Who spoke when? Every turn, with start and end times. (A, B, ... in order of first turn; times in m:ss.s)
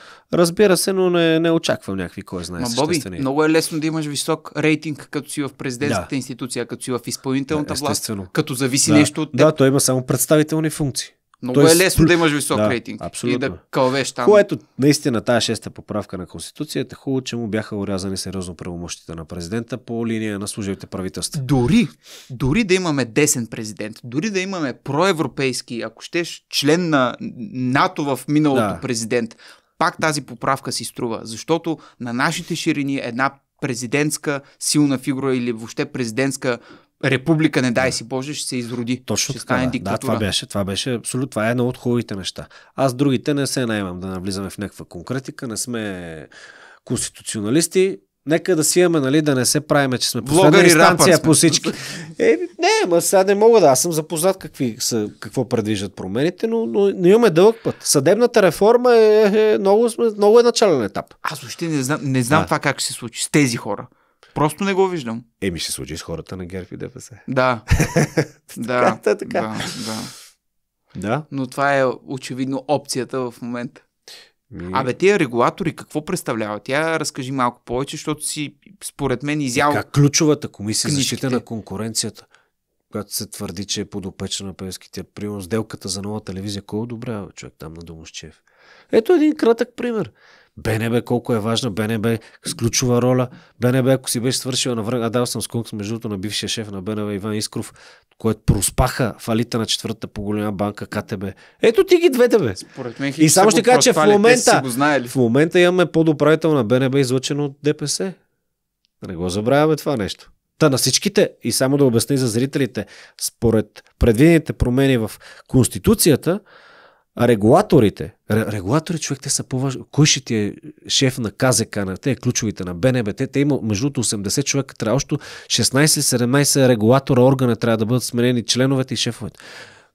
0:00.3-0:03.3 A
0:02.6-0:09.5 B
0:05.8-0:06.1 A
0:07.5-0:08.3 A
0:08.9-0:13.6 A
0:11.4-0:14.4 B
0:14.2-0:21.4 A
0:21.4-0:40.2 B
0:28.5-0:28.8 A
0:39.1-0:46.3 A
0:46.8-1:01.2 A
0:50.2-0:51.8 B
1:01.2-1:05.3 B
1:05.4-1:09.7 A
1:07.3-1:07.7 B
1:08.6-1:10.1 B
1:11.0-1:11.3 A
1:11.3-1:13.8 B
1:14.5-1:14.9 A
1:14.7-1:19.8 B
1:19.6-1:22.3 A
1:20.8-1:21.4 B
1:22.9-1:28.4 A
1:28.9-1:42.6 A
1:42.6-1:45.2 B
1:43.2-1:48.2 A
1:49.0-1:56.4 A
1:57.2-2:09.4 A